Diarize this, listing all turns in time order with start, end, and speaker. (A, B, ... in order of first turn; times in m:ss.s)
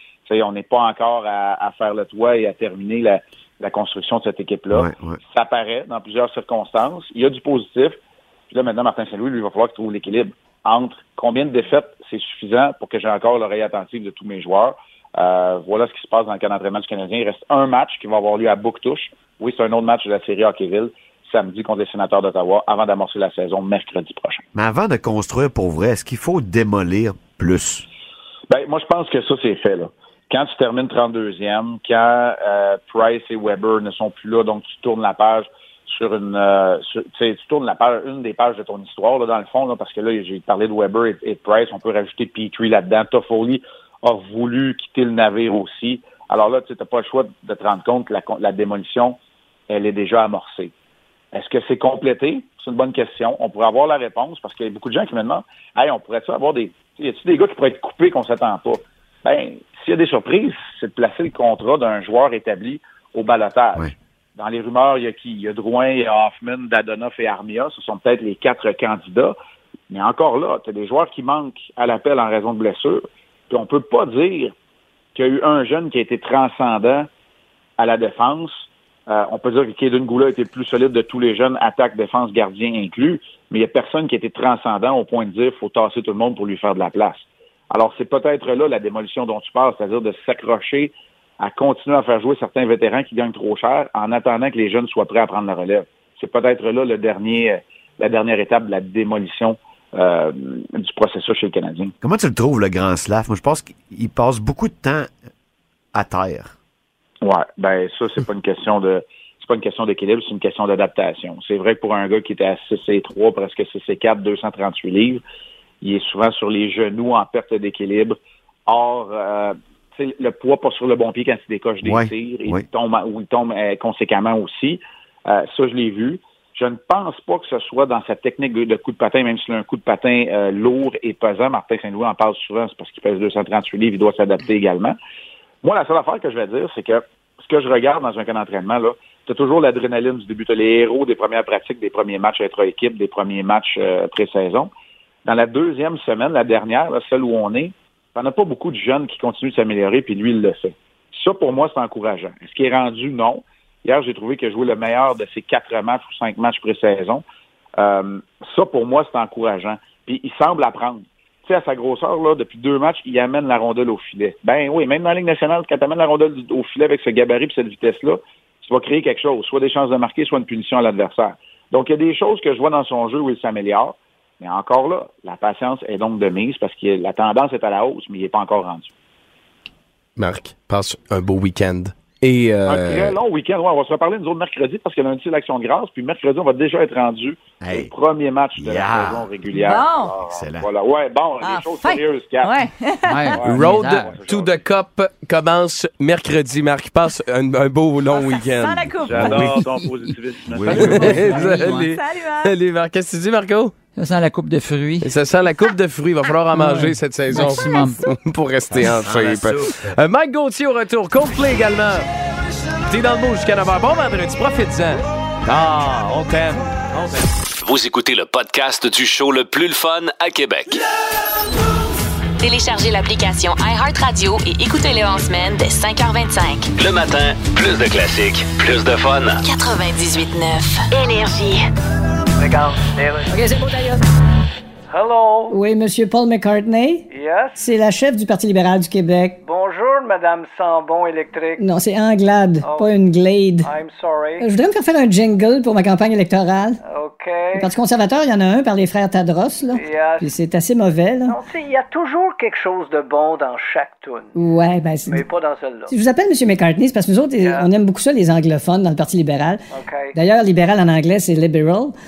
0:00.2-0:08.0 A
0:04.7-0:05.2 B
0:08.5-0:24.4 A
0:24.5-0:27.8 B
0:28.5-0:49.2 A
0:49.7-0:50.7 A
0:51.3-1:09.4 A
1:09.9-1:14.5 A
1:15.1-1:17.1 A
1:17.8-1:41.9 A
1:42.0-1:45.1 B
1:45.9-1:46.5 B
1:47.2-1:55.2 A
1:55.8-2:15.0 A
2:01.8-2:02.6 B
2:15.6-2:24.7 A
2:25.2-2:37.2 A
2:37.8-2:58.9 A
3:00.2-3:03.2 C
3:02.6-3:12.5 A
3:07.6-3:07.9 B
3:08.6-3:09.3 B
3:09.5-3:10.1 D
3:10.3-3:10.7 B
3:11.4-3:13.4 D
3:13.1-3:14.1 E
3:13.4-3:18.9 C
3:13.4-3:14.6 A
3:18.1-3:19.6 D
3:19.1-3:19.6 B
3:19.1-3:20.8 A
3:19.6-3:21.9 E
3:20.5-3:21.2 B
3:20.7-3:23.7 C
3:21.3-3:22.5 D
3:24.0-3:25.1 E
3:25.0-3:32.1 C
3:26.5-3:28.0 E
3:28.7-3:29.8 B
3:32.9-3:35.0 C
3:35.4-3:36.7 B
3:36.9-3:37.3 C
3:37.6-3:40.8 F
3:42.4-3:46.7 G
3:46.8-3:49.4 F
3:49.4-3:51.6 G
3:52.4-3:53.3 H
3:53.3-3:54.0 I
3:54.9-3:55.6 H
3:55.5-3:57.0 I
3:57.1-3:57.6 H
3:57.6-3:59.4 I
3:59.4-4:01.6 H
4:01.6-4:03.7 I
4:02.6-4:03.0 H
4:03.6-4:04.5 H
4:04.4-4:06.8 I
4:06.8-4:07.7 H
4:07.6-4:11.4 I
4:09.7-4:10.3 H
4:11.3-4:14.3 H
4:14.4-4:15.2 I
4:15.1-4:15.9 H
4:15.9-4:19.6 I
4:17.4-4:17.7 H
4:19.7-4:20.2 H
4:20.1-4:21.9 I